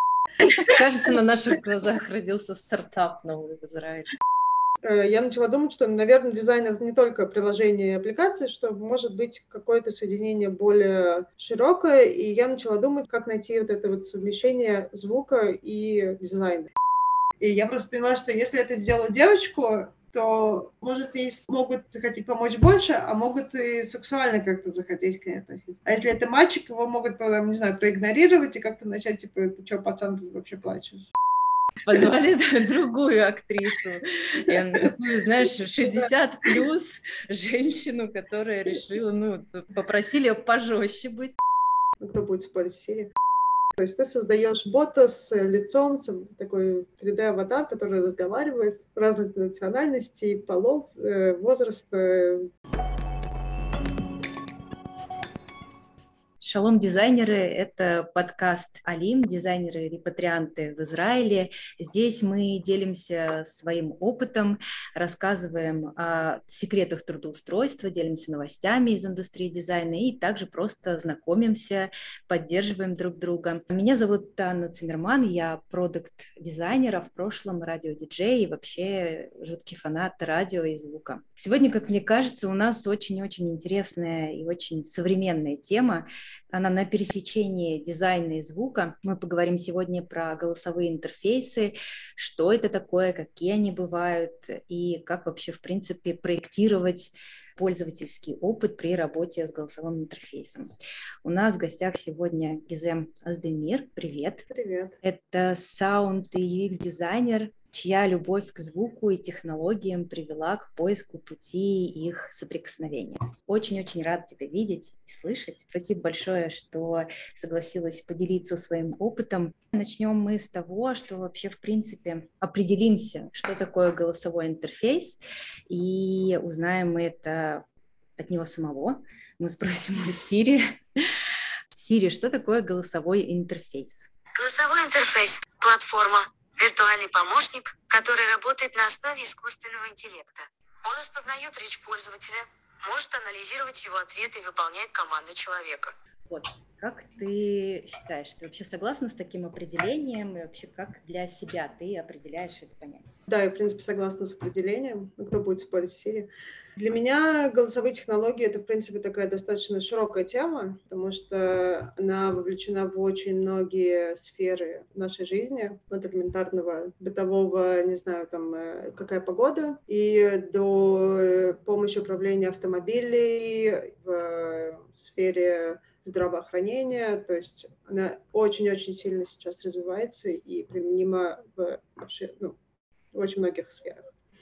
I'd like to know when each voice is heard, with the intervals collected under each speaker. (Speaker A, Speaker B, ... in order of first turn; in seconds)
Speaker A: 0.4-4.1, 31.8-41.4, 56.4-104.5, 105.0-127.6, 128.2-130.8, 131.7-134.1, 146.3-153.1
Speaker B: 4.8-16.7, 17.4-31.1, 42.0-43.1, 43.8-52.5, 104.5-105.0, 153.3-182.6, 183.1-184.0
Speaker C: 134.4-145.9